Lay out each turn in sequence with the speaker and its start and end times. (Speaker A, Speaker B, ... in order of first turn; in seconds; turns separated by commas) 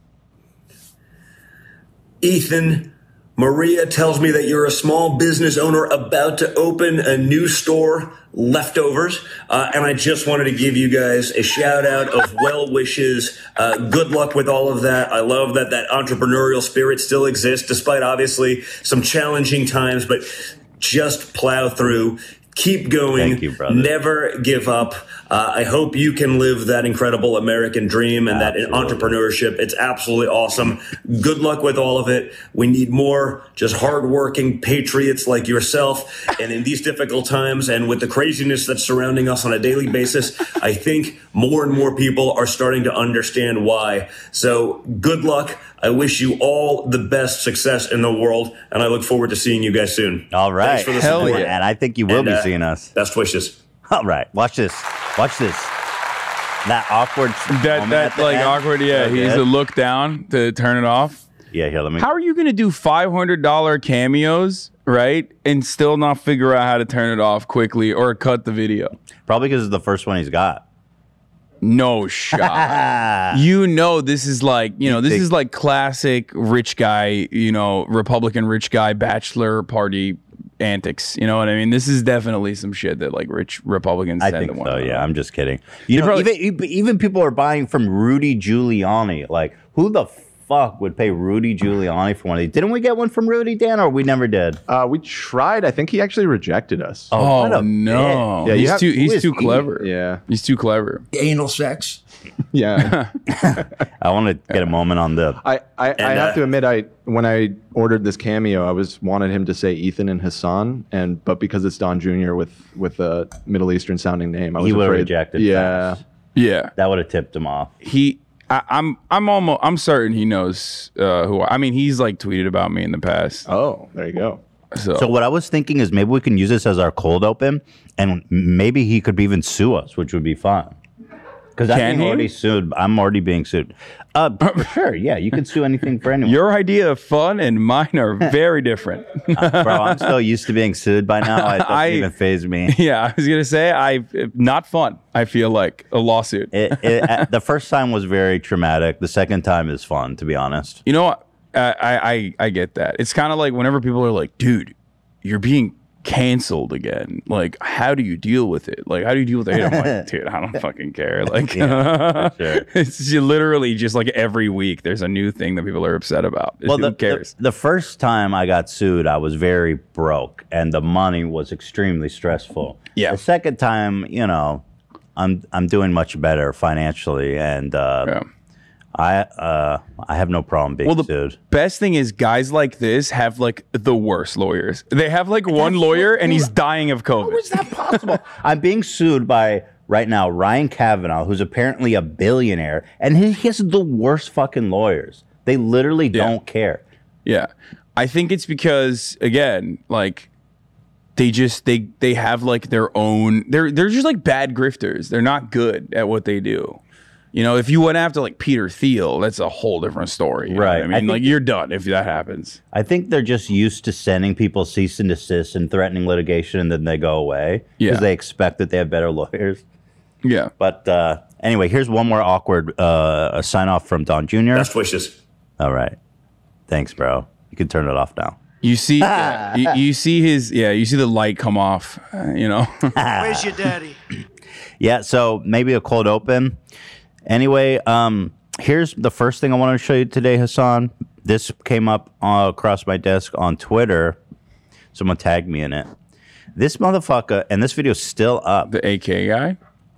Speaker A: 2.2-51.5, Speaker B: 23.1-23.9, Speaker B: 28.2-29.2, Speaker B: 50.3-52.9, Speaker C: 50.9-51.5, Speaker A: 52.1-53.6, Speaker B: 53.9-55.7, Speaker B: 56.6-59.4, Speaker C: 57.5-61.2, Speaker B: 61.5-62.1, Speaker C: 62.0-68.9, Speaker B: 69.3-70.6, Speaker C: 71.6-85.0, Speaker B: 72.3-73.4, Speaker B: 74.8-75.2, Speaker B: 84.2-94.6, Speaker C: 85.9-86.3, Speaker D: 94.7-97.1, Speaker B: 97.1-99.7, Speaker C: 97.2-101.0, Speaker D: 98.4-99.0, Speaker D: 99.8-100.2, Speaker D: 102.5-103.0, Speaker B: 103.4-105.4, Speaker D: 105.4-116.0, Speaker A: 106.0-106.4, Speaker B: 114.6-116.0, Speaker C: 116.3-116.7, Speaker B: 116.8-117.7, Speaker C: 117.8-123.5, Speaker D: 123.5-124.4, Speaker C: 124.7-125.1, Speaker B: 124.9-130.8, Speaker B: 131.6-136.4, Speaker C: 131.7-132.3, Speaker C: 136.2-140.1, Speaker B: 139.3-142.7, Speaker C: 141.2-142.1, Speaker C: 142.7-147.2, Speaker B: 146.5-150.8, Speaker C: 150.8-167.3, Speaker B: 159.5-159.9, Speaker B: 161.5-162.7, Speaker B: 166.7-174.6, Speaker B: 175.2-178.1, Speaker B: 178.9-181.4, Speaker C: 180.8-188.0, Speaker B: 185.6-186.5, Speaker B: 187.2-196.8, Speaker C: 197.2-200.3, Speaker C: 201.2-206.8, Speaker C: 207.3-212.6, Speaker B: 210.5-211.3, Speaker B: 212.7-219.6, Speaker C: 220.2-220.5, Speaker B: 220.6-224.7, Speaker A: 224.5-225.2, Speaker B: 225.6-226.0, Speaker B: 226.7-228.4, Speaker C: 228.6-233.0, Speaker B: 229.0-229.8, Speaker B: 232.9-233.9, Speaker B: 234.8-236.6, Speaker B: 237.2-244.2, Speaker B: 244.9-245.9, Speaker B: 246.5-248.7, Speaker C: 248.7-249.6